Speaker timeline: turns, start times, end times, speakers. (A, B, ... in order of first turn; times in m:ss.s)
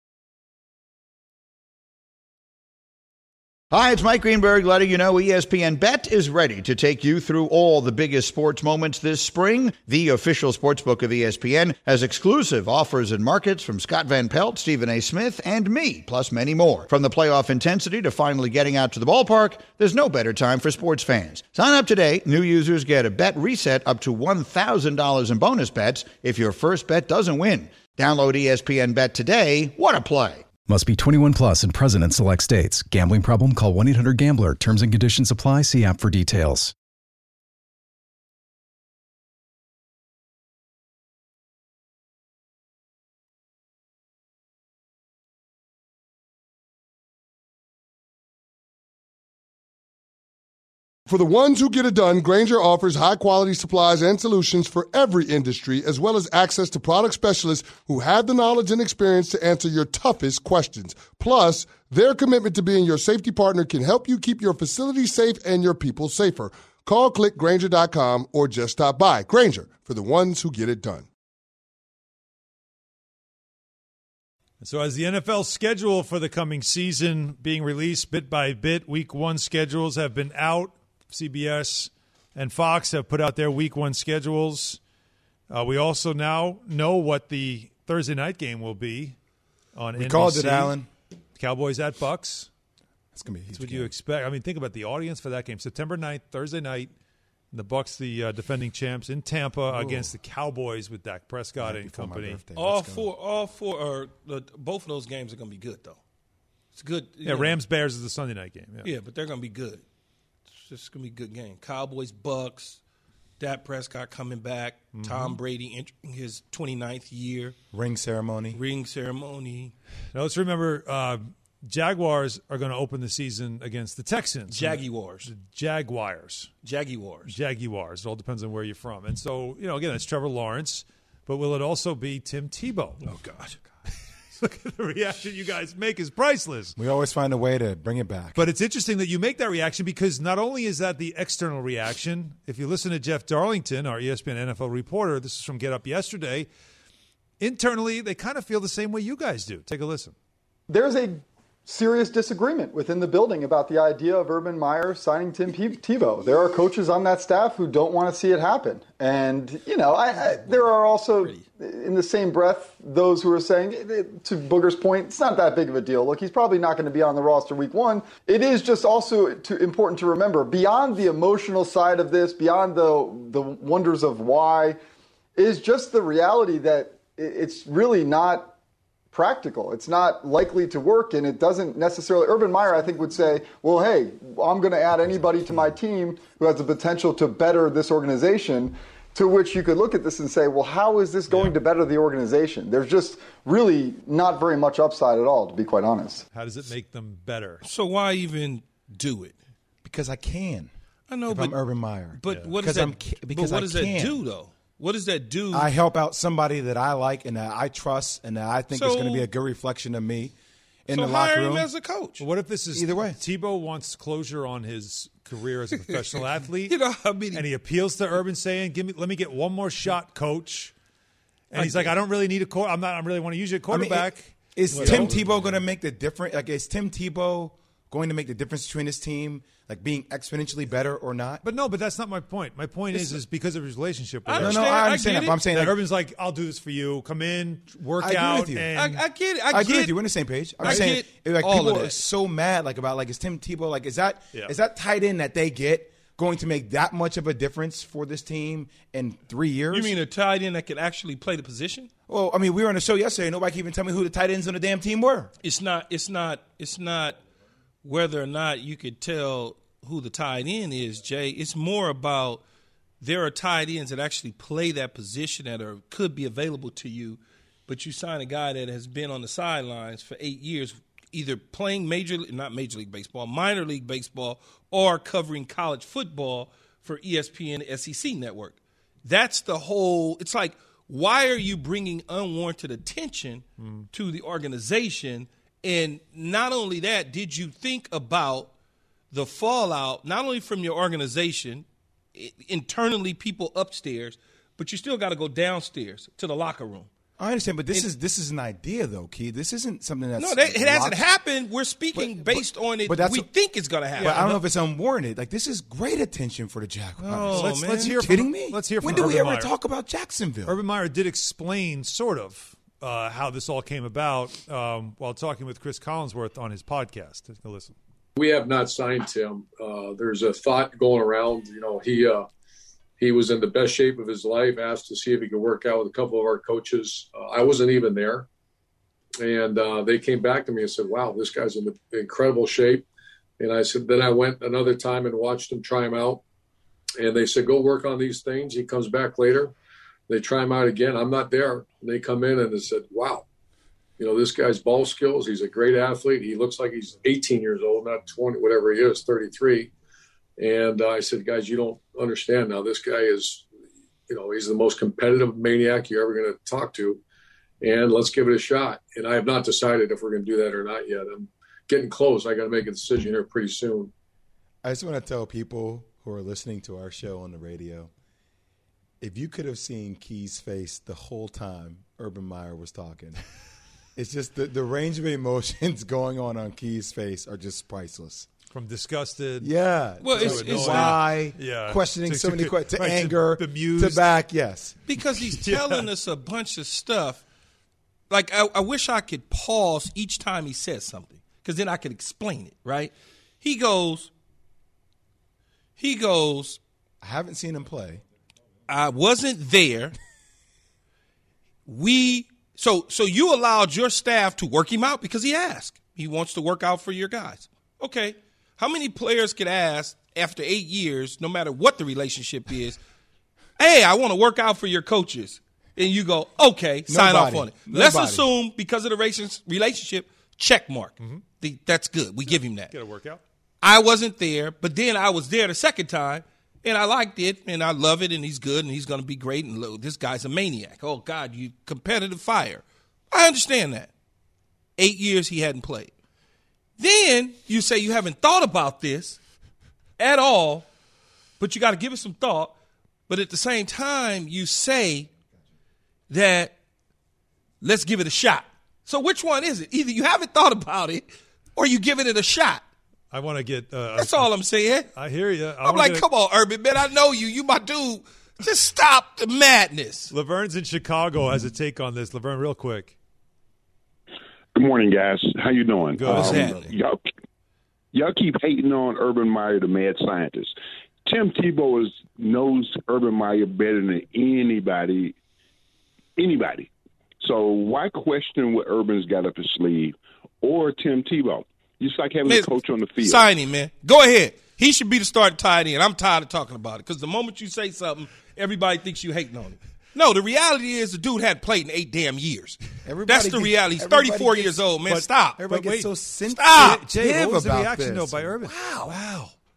0:03.7-0:30.4 A
0:30.6-0:36.7 B
0:51.1-1:11.0 C
1:14.6-1:24.8 D
1:25.5-1:29.2 D
1:29.7-1:30.8 D
1:30.0-1:30.8 E
1:31.4-1:32.5 D
1:33.1-1:33.9 E
1:33.5-1:36.9 D
1:37.5-1:42.4 D
1:39.7-1:40.1 E
1:41.6-1:43.1 E
1:42.5-1:46.0 F
1:46.7-1:47.6 F
1:47.2-1:48.9 D
1:48.8-1:49.8 F
1:50.6-1:52.8 F
1:53.4-1:57.6 F
1:54.9-1:55.4 D
1:57.7-1:58.6 E
1:58.5-1:59.7 F
2:00.1-2:06.5 D
2:04.5-2:05.3 F
2:06.6-2:07.3 F
2:07.3-2:13.0 D
2:13.0-2:13.6 F
2:14.4-2:16.8 D
2:16.8-2:18.4 E
2:18.4-2:26.5 D
2:27.4-2:30.1 D
2:30.7-2:54.8 G
2:55.4-2:58.5 G
2:59.1-3:16.2 G
3:16.3-3:17.6 D
3:17.6-3:19.3 F
3:19.8-3:20.7 E
3:21.1-3:21.6 F
3:21.3-3:24.2 E
3:22.1-3:25.7 F
3:25.5-3:30.3 E
3:28.7-3:29.2 F
3:30.8-3:31.7 E
3:30.9-3:32.2 F
3:32.2-3:36.8 D
3:32.7-3:33.2 E
3:36.7-3:37.4 F
3:37.3-3:40.7 D
3:41.5-3:45.5 D
3:41.5-3:41.9 F
3:43.7-3:51.4 E
3:44.7-3:45.4 F
3:51.4-3:54.9 D
3:54.2-3:55.4 F
3:54.3-3:55.8 E
3:55.5-3:59.0 D
3:58.0-3:58.7 E
3:58.7-4:00.0 F
3:59.5-4:09.9 E
4:00.6-4:02.0 F
4:00.6-4:00.9 D
4:09.7-4:11.9 F
4:12.1-4:15.3 E
4:15.4-4:17.2 F
4:17.8-4:22.4 F
4:23.0-4:48.5 F
4:43.6-4:43.8 D
4:49.1-4:56.9 F
4:57.2-5:01.0 E
5:00.2-5:04.4 F
5:01.9-5:03.3 E
5:04.0-5:10.6 E
5:07.0-5:07.9 F
5:07.3-5:09.5 D
5:10.5-5:17.7 D
5:18.2-5:22.3 H
5:23.0-5:28.3 H
5:29.2-5:32.8 H
5:33.4-5:36.2 H
5:37.0-5:39.5 H
5:40.1-5:43.2 H
5:44.0-5:49.7 H
5:50.4-5:53.5 H
5:54.1-5:57.0 H
5:57.6-6:03.9 H
6:04.6-6:07.9 E
6:09.0-6:13.2 E
6:14.0-6:18.3 E
6:18.5-6:19.5 D
6:19.4-6:24.7 E
6:20.0-6:21.0 F
6:20.0-6:24.0 D
6:24.9-6:27.2 F
6:25.3-6:25.8 D
6:28.1-6:34.1 F
6:35.8-6:36.6 F
6:37.0-6:38.0 E
6:38.7-6:39.9 F
6:41.6-6:52.8 F
6:53.6-7:02.7 F
6:56.9-6:58.3 E
7:02.7-7:03.2 D
7:03.6-7:13.9 F
7:14.8-7:15.9 F
7:16.8-7:19.2 F
7:20.0-7:20.6 F
7:21.4-7:22.5 F
7:23.1-7:25.1 F
7:26.1-7:26.5 F
7:27.6-7:32.6 F
7:33.1-7:34.3 D
7:34.0-7:34.9 F
7:34.9-7:36.0 D
7:35.6-7:40.1 F
7:40.1-7:42.9 D
7:44.5-7:47.1 I
7:46.0-7:46.7 D
7:46.0-7:46.7 F
7:47.9-7:50.5 I
7:51.0-7:55.1 I
7:56.2-7:56.7 I
7:57.2-8:03.3 I
8:02.2-8:15.5 F
8:12.8-8:14.7 E
8:14.9-8:15.9 D
8:15.4-8:18.4 E
8:16.3-8:16.8 F
8:16.5-8:19.3 D
8:18.4-8:18.9 F